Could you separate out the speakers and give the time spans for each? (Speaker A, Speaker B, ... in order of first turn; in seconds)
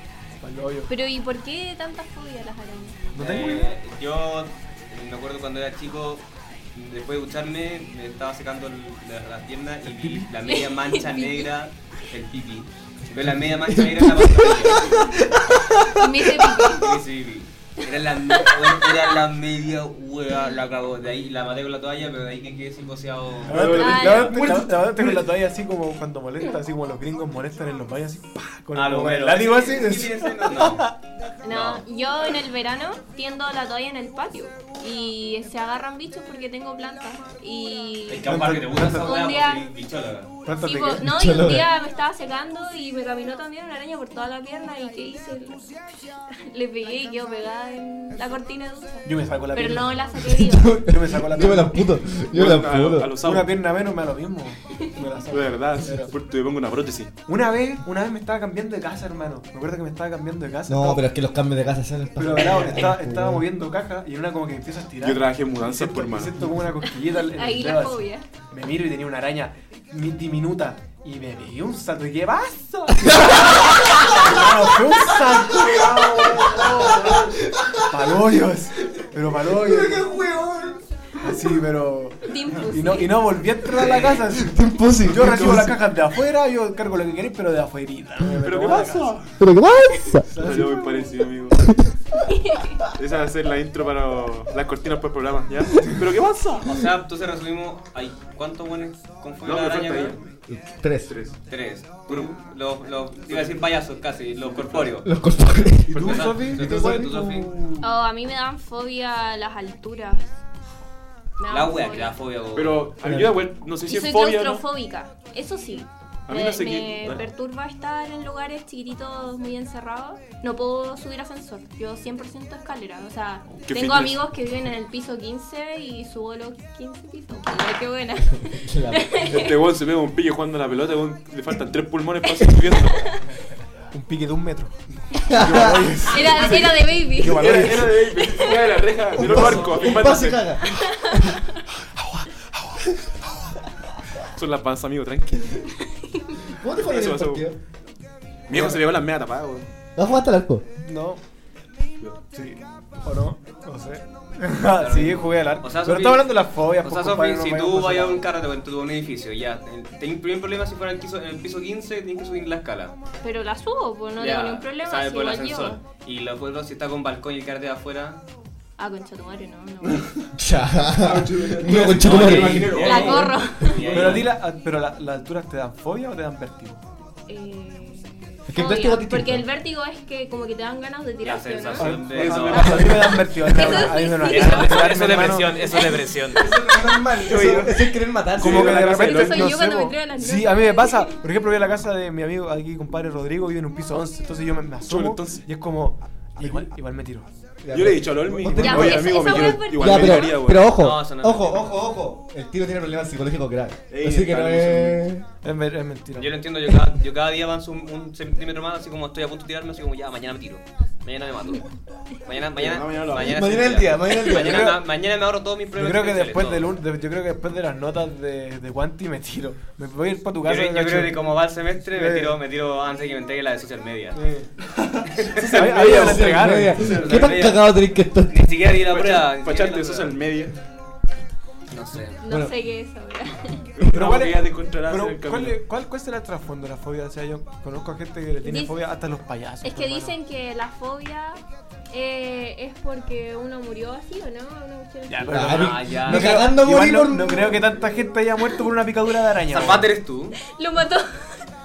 Speaker A: 0.4-0.9, 3.1-3.7, 23.4-30.9, 38.2-39.1, 40.5-41.1, 49.0-50.0, 50.8-51.9, 53.2-56.1, 57.3-61.1, 62.1-77.3, 77.9-80.1, 81.2-89.1, 90.3-91.1, 105.9-107.9, 133.9-134.7, 135.3-138.1, 139.2-139.6, 142.0-142.8, 148.5-148.8, 150.8-151.2, 152.3-158.2, 173.8-176.8, 181.8-185.6, 188.4-197.3, 205.4-206.3, 214.2-214.8, 215.7-221.3, 221.9-222.4, 224.1-224.5, 225.5-226.9, 233.8-240.1, 245.1-249.9
Speaker B: 0.9-3.0, 10.4-11.5, 15.9-17.0, 23.7-24.4, 31.4-39.7, 40.6-45.7, 46.3-50.9, 67.1-68.3, 82.2-83.3, 92.3-92.8, 107.8-110.3, 111.4-112.1, 113.8-129.6, 132.4-133.2, 136.1-137.7, 138.3-138.6, 140.8-141.6, 163.2-165.8, 168.8-170.1, 172.7-174.0, 177.3-182.0, 183.4-186.0, 188.8-191.2, 198.6-200.4, 232.2-233.7, 238.4-238.7, 239.6-241.4, 241.9-245.5, 250.4-251.4
Speaker C: 3.2-14.9, 16.7-24.1, 28.7-30.9, 31.5-31.8, 38.1-40.3, 96.6-100.2, 101.5-105.1, 106.0-107.5, 111.5-112.8, 154.8-163.0, 164.2-168.2, 171.7-174.3, 181.2-183.2, 184.1-186.5, 200.6-201.9, 206.2-211.7, 212.2-216.7, 220.4-224.2, 225.2-225.9, 226.8-227.7, 228.3-230.2, 231.7-232.2, 245.5-246.5, 249.5-250.4
Speaker D: 13.7-16.7, 41.0-41.7, 50.2-53.2, 60.7-63.5, 73.0-78.1, 78.9-80.8, 83.9-85.8, 89.4-90.3, 91.6-91.9, 100.5-101.1, 105.0-107.1, 113.0-113.4, 128.4-129.5, 135.2-135.9, 139.1-141.4, 146.5-147.6, 149.9-150.6, 170.3-173.0, 178.5-179.5, 186.3-189.0, 196.4-196.7, 197.6-205.2, 213.2-214.8, 225.5-228.5, 232.3-232.5, 245.3-247.7
Speaker E: 23.5-24.7, 52.3-53.5, 55.3-57.1, 65.0-66.4, 88.4-89.4, 90.4-91.6, 92.9-96.7, 99.4-100.2, 101.0-101.4, 103.3-103.6, 104.5-105.0, 112.5-114.6, 116.3-117.2, 123.5-124.2, 129.2-133.0, 136.1-140.4, 144.3-145.6, 146.8-147.4, 148.5-149.7, 171.0-174.2, 181.9-183.5, 187.0-189.6, 194.8-195.4, 197.7-200.7, 203.9-205.0, 212.5-213.5, 225.3-227.4, 228.8-230.5, 233.8-235.6